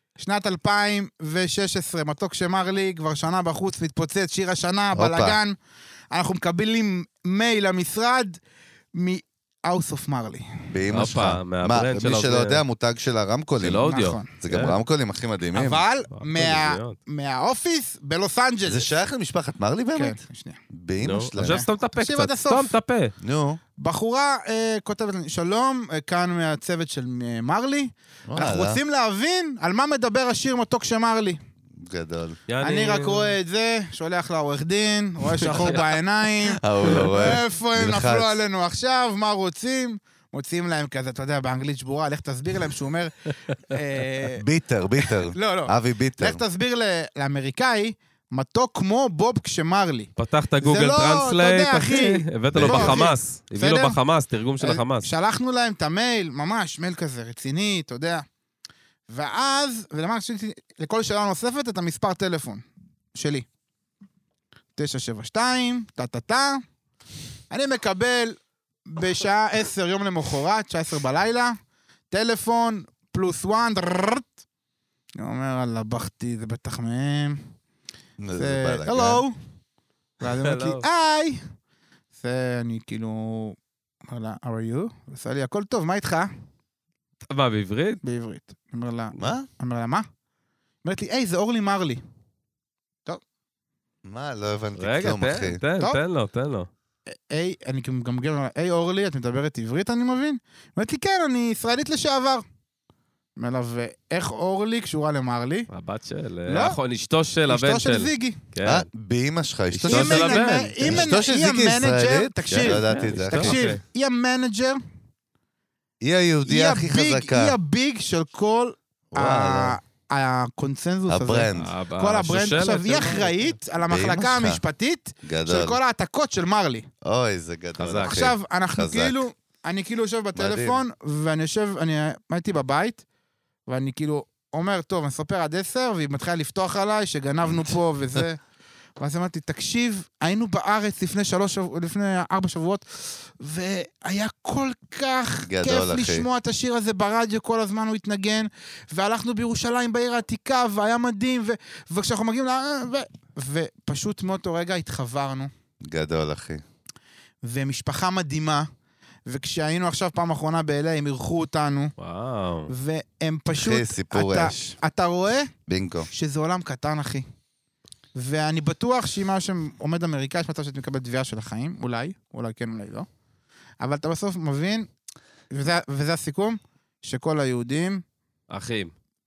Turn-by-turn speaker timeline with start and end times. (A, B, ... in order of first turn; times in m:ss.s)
0:00.2-0:05.6 A
0:04.9-0:05.4 B
0:06.1-0:08.4 A
0:08.9-0:10.7 A
0:10.7-0:13.9 B
0:10.9-0:12.6 C
0:13.6-0:14.8 C
0:13.8-0:14.3 A
0:14.4-0:15.8 B
0:15.5-0:18.9 A
0:16.1-0:17.0 C
0:18.7-0:20.2 B
0:20.0-0:20.6 A
0:20.7-0:21.6 B
0:21.0-0:23.1 C
0:21.4-0:22.8 A
0:23.2-0:23.6 B
0:23.8-0:31.4 A
0:28.3-0:28.8 B
0:31.8-0:32.4 B
0:32.5-0:33.4 C
0:32.6-0:44.4 A
0:35.3-0:35.9 C
0:36.6-0:38.4 B
0:36.9-0:37.1 C
0:44.4-0:46.4 B
0:45.0-0:54.0 A
0:50.2-0:55.1 C
0:52.5-0:53.0 B
0:54.6-0:58.3 A
0:59.1-1:03.5 A
1:04.8-1:06.6 A
1:07.5-1:11.6 A
1:12.1-1:14.3 A
1:15.2-1:17.4 A
1:18.2-1:19.2 B
1:18.4-1:19.4 A
1:20.2-1:21.4 A
1:20.2-1:20.8 C
1:22.2-1:26.3 A
1:27.3-1:28.0 C
1:28.0-1:30.1 A
1:29.2-1:29.5 B
1:30.8-1:32.0 A
1:34.0-1:35.6 B
1:34.8-1:36.7 C
1:37.1-1:42.4 A
1:43.4-1:45.7 A
1:45.7-1:48.9 C
1:46.5-1:46.8 A
1:47.5-1:48.4 A
1:48.6-1:53.6 B
1:49.8-1:54.8 A
1:49.9-1:51.1 C
1:52.5-1:53.8 C
1:56.0-1:57.6 B
1:56.4-2:06.9 A
1:59.1-1:59.8 B
2:01.1-2:01.8 B
2:01.5-2:03.6 C
2:03.9-2:04.6 B
2:05.2-2:05.8 B
2:07.0-2:09.3 B
2:07.8-2:08.2 C
2:08.0-2:13.0 A
2:10.4-2:10.8 B
2:13.7-2:18.4 A
2:17.5-2:17.7 B
2:19.0-2:35.5 A
2:25.5-2:26.3 B
2:35.8-2:36.6 B
2:37.4-2:38.7 A
2:39.3-2:41.9 A
2:42.0-2:42.7 C
2:42.7-2:45.5 A
2:43.5-2:44.8 B
2:45.7-2:46.1 B
2:46.1-2:47.3 A
2:48.2-2:53.1 A
2:53.8-2:54.9 A
2:55.5-2:58.0 A
2:58.5-2:58.9 C